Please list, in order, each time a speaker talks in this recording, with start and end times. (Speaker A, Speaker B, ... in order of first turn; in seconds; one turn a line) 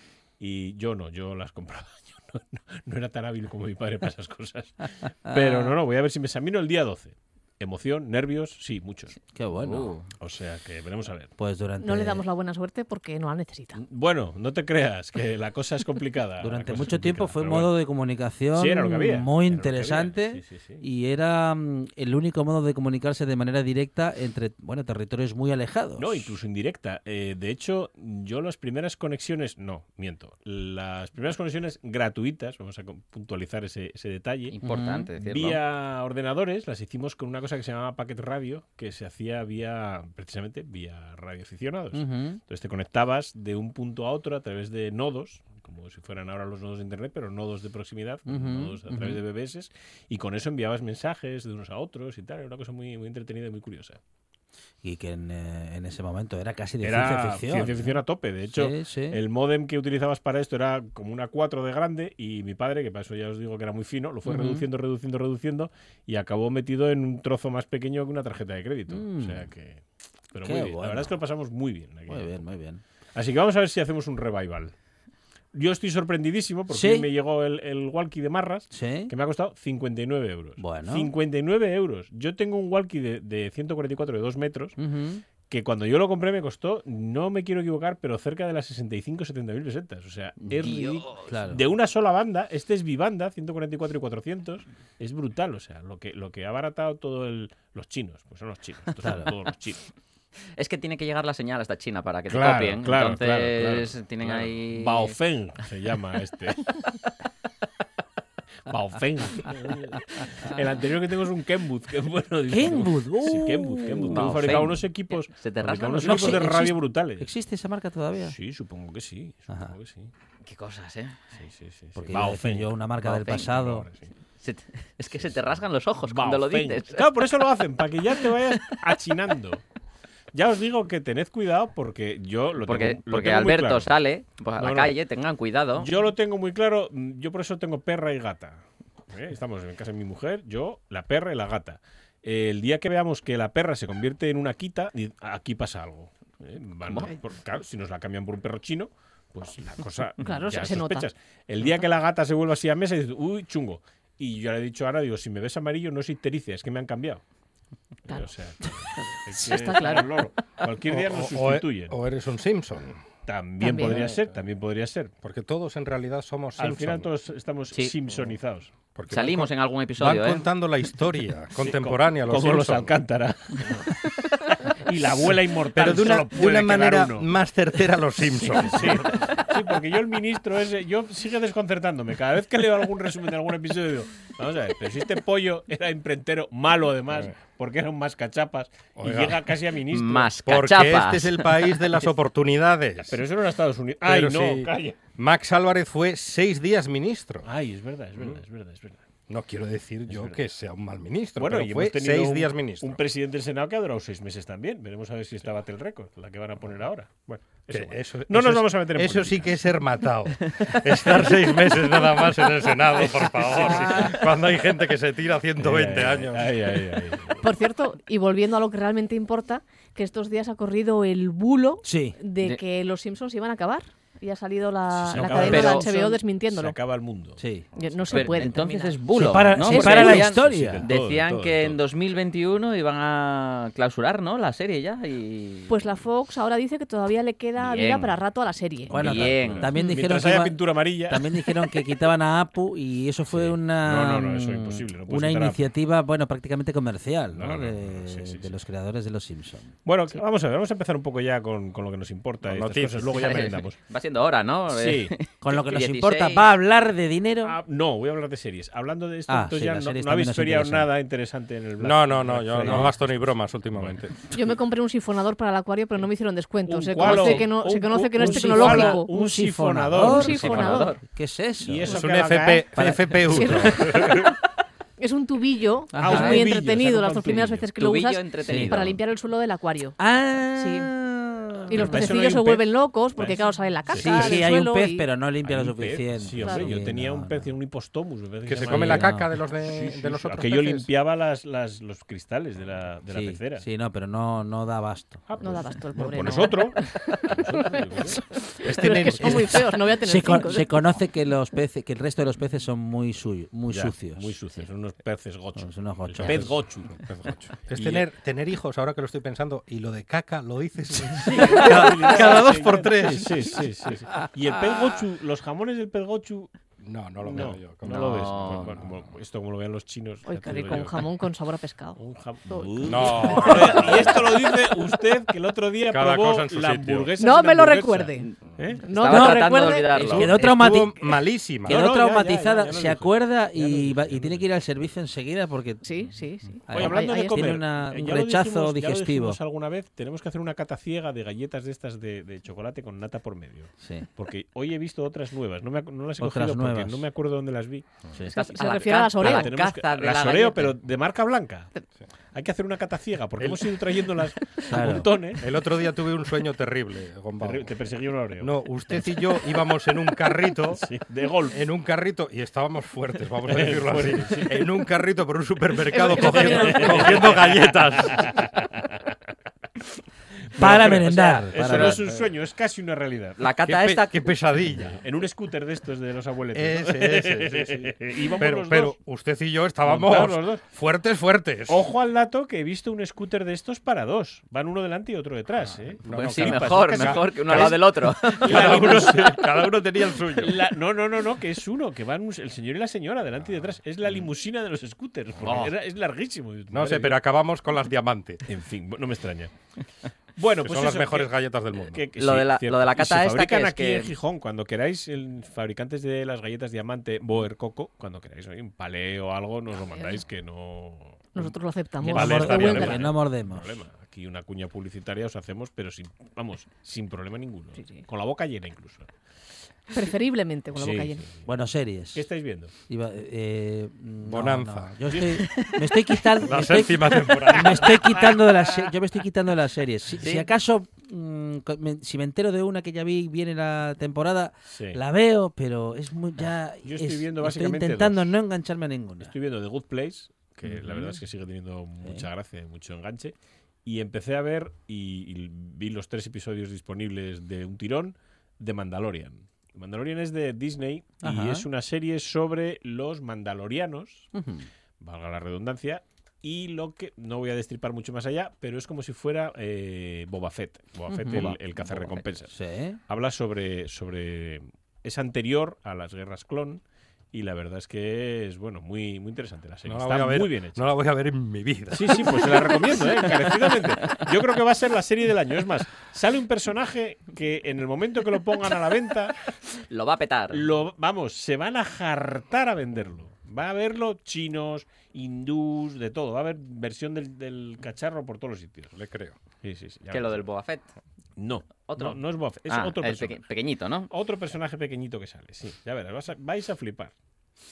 Speaker A: 0.4-9.2
Speaker B: 5.1-5.8
Speaker B: 9.3-10.0
Speaker C: 9.6-10.1
Speaker A: 10.2-11.3
Speaker B: 11.4-12.2
Speaker D: 11.8-13.8
Speaker A: 13.8-17.7
Speaker B: 16.4-26.3
Speaker A: 18.5-20.8
Speaker A: 26.0-34.5
Speaker C: 34.5-35.6
Speaker B: 34.6-35.1
Speaker A: 35.2-54.0
Speaker B: 41.9-42.4
Speaker B: 48.3-49.2
Speaker B: 54.8-59.2
Speaker A: 56.8-72.4
Speaker B: 64.3-64.7
Speaker B: 68.9-69.5
Speaker B: 70.4-71.2
Speaker B: 72.1-72.8
Speaker A: 73.2-74.7
Speaker A: 75.5-84.8
Speaker B: 76.7-77.1
Speaker B: 78.7-79.1
Speaker B: 80.6-81.1
Speaker B: 84.8-85.2
Speaker A: 85.5-99.8
Speaker C: 90.6-91.2
Speaker B: 91.2-91.6
Speaker B: 99.0-99.3
Speaker C: 100.6-105.2
Speaker A: 102.3-106.9
Speaker A: 108.7-117.3
Speaker B: 112.5-114.4
Speaker C: 114.1-116.6
Speaker B: 116.0-118.3
Speaker A: 118.2-120.1
Speaker B: 119.5-119.7
Speaker C: 120.5-121.2
Speaker A: 121.3-124.1
Speaker B: 122.0-123.9
Speaker C: 123.2-123.5
Speaker C: 124.4-127.4
Speaker A: 125.1-129.6
Speaker C: 128.1-128.7
Speaker A: 130.3-133.9
Speaker C: 132.6-135.9
Speaker A: 134.6-135.0
Speaker A: 135.8-157.2
Speaker C: 146.9-147.1
Speaker D: 150.2-151.1
Speaker A: 158.1-161.9
Speaker D: 159.4-160.1
Speaker E: 160.9-163.0
Speaker A: 163.3-165.1
Speaker D: 163.6-164.1
Speaker E: 163.8-164.3
Speaker E: 165.2-167.1
Speaker A: 166.6-168.7
Speaker E: 168.9-173.0
Speaker C: 169.1-170.5
Speaker A: 171.6-177.3
Speaker E: 175.7-179.2
Speaker A: 178.4-190.3
Speaker E: 189.0-189.4
Speaker C: 189.9-191.8
Speaker E: 190.4-193.2
Speaker A: 193.1-195.0
Speaker E: 194.0-197.5
Speaker A: 197.4-199.0
Speaker E: 198.2-198.4
Speaker E: 199.3-203.0
Speaker A: 200.1-200.4
Speaker A: 201.4-209.5
Speaker E: 207.7-216.8
Speaker A: 213.0-214.1
Speaker A: 215.6-217.4
Speaker D: 217.4-226.8
Speaker B: 221.8-222.2
Speaker A: 225.0-228.6
Speaker C: 225.2-226.1
Speaker B: 227.4-227.7
Speaker D: 227.8-229.0
Speaker C: 228.1-235.7
Speaker B: 229.2-230.9
Speaker A: 229.4-231.8
Speaker D: 229.6-230.1
Speaker D: 235.7-238.9
Speaker C: 237.6-238.1
Speaker A: 238.9-241.2
Speaker B: 238.9-249.8
Speaker C: 238.9-239.7
Speaker A: 243.3-245.6
Speaker A: 247.3-248.5
Speaker A: 249.8-253.8
Speaker E: 252.4-253.4
Speaker C: 253.1-256.4
Speaker A: 254.7-255.1
Speaker B: 255.4-257.6
Speaker A: 257.4-264.0
Speaker B: 259.3-260.9
Speaker E: 261.8-264.2
Speaker B: 262.6-262.9
Speaker D: 264.3-269.1
Speaker A: 266.7-270.8
Speaker B: 267.0-267.5
Speaker B: 268.2-272.0
Speaker D: 270.0-271.0
Speaker C: 270.4-271.0
Speaker A: 271.6-273.2
Speaker E: 271.9-274.1
Speaker B: 272.7-273.2
Speaker D: 273.2-274.3
Speaker D: 275.0-280.0
Speaker B: 275.9-276.5
Speaker A: 276.0-277.7
Speaker C: 277.8-279.0
Speaker B: 278.5-278.8
Speaker B: 280.0-282.0
Speaker D: 280.6-280.9
Speaker D: 281.7-285.1
Speaker A: 281.8-284.6
Speaker B: 283.9-287.5
Speaker A: 285.4-293.6
Speaker D: 286.3-286.8
Speaker E: 288.5-290.9
Speaker B: 288.6-289.3
Speaker B: 293.1-295.3
Speaker A: 295.3-298.2
Speaker D: 295.4-300.9
Speaker E: 298.6-299.6
Speaker B: 299.2-304.3
Speaker A: 303.7-307.1
Speaker B: 305.6-306.5
Speaker E: 306.2-313.7
Speaker A: 307.7-308.1
Speaker A: 311.0-316.5
Speaker E: 316.8-318.9
Speaker A: 317.2-321.1
Speaker C: 317.8-318.8
Speaker D: 320.3-324.5
Speaker A: 322.0-328.8
Speaker E: 322.9-323.9
Speaker C: 323.8-324.2
Speaker E: 325.9-327.1
Speaker D: 327.2-328.3
Speaker D: 328.8-330.3
Speaker C: 328.9-330.4
Speaker B: 329.1-331.0
Speaker E: 330.4-331.8
Speaker A: 330.4-330.8
Speaker A: 331.6-334.5
Speaker B: 331.6-336.1
Speaker D: 335.8-337.6
Speaker B: 336.6-339.4
Speaker A: 336.7-347.9
Speaker B: 343.8-344.1
Speaker B: 346.2-347.1
Speaker C: 348.3-350.8
Speaker D: 348.3-349.5
Speaker A: 349.2-351.7
Speaker A: 352.3-355.6
Speaker E: 353.4-353.7
Speaker B: 354.7-355.1
Speaker E: 355.4-357.7
Speaker A: 357.4-358.6
Speaker E: 358.4-360.9
Speaker A: 360.7-361.6
Speaker E: 361.5-368.3
Speaker A: 363.4-364.7
Speaker D: 365.9-367.2
Speaker A: 366.0-369.1
Speaker A: 370.5-373.4
Speaker B: 370.6-372.0
Speaker E: 371.6-372.3
Speaker C: 373.4-374.4
Speaker E: 373.6-375.0
Speaker A: 374.9-379.0
Speaker E: 376.5-381.8
Speaker A: 379.8-380.6
Speaker A: 381.7-389.7
Speaker E: 385.6-390.7
Speaker C: 386.1-389.1
Speaker A: 390.3-397.2
Speaker C: 395.4-395.7
Speaker E: 396.7-398.4
Speaker A: 398.5-399.5
Speaker A: 400.4-419.1
Speaker E: 400.6-402.1
Speaker C: 402.2-404.1
Speaker D: 411.4-413.1
Speaker B: 412.0-413.8
Speaker D: 417.8-418.1
Speaker D: 419.9-421.3
Speaker A: 420.7-421.4
Speaker B: 421.4-422.2
Speaker A: 422.1-422.7
Speaker B: 422.9-439.3
Speaker E: 424.2-425.1
Speaker A: 425.1-425.5
Speaker E: 426.4-428.1
Speaker A: 427.5-428.9
Speaker C: 430.2-430.5
Speaker A: 434.7-435.0
Speaker A: 436.8-438.3
Speaker A: 439.2-443.3
Speaker B: 440.6-441.2
Speaker A: 443.9-454.3
Speaker B: 451.2-451.6
Speaker B: 454.3-454.7
Speaker A: 455.0-462.6
Speaker B: 461.1-461.6
Speaker C: 461.3-462.2
Speaker B: 462.5-463.0
Speaker A: 463.1-470.8
Speaker E: 469.9-472.9
Speaker A: 471.9-479.5
Speaker C: 479.9-480.6
Speaker A: 480.5-488.9
Speaker E: 488.9-489.4
Speaker A: 489.6-490.5
Speaker C: 490.1-490.9
Speaker A: 491.4-493.4
Speaker C: 491.9-494.1
Speaker A: 494.1-497.1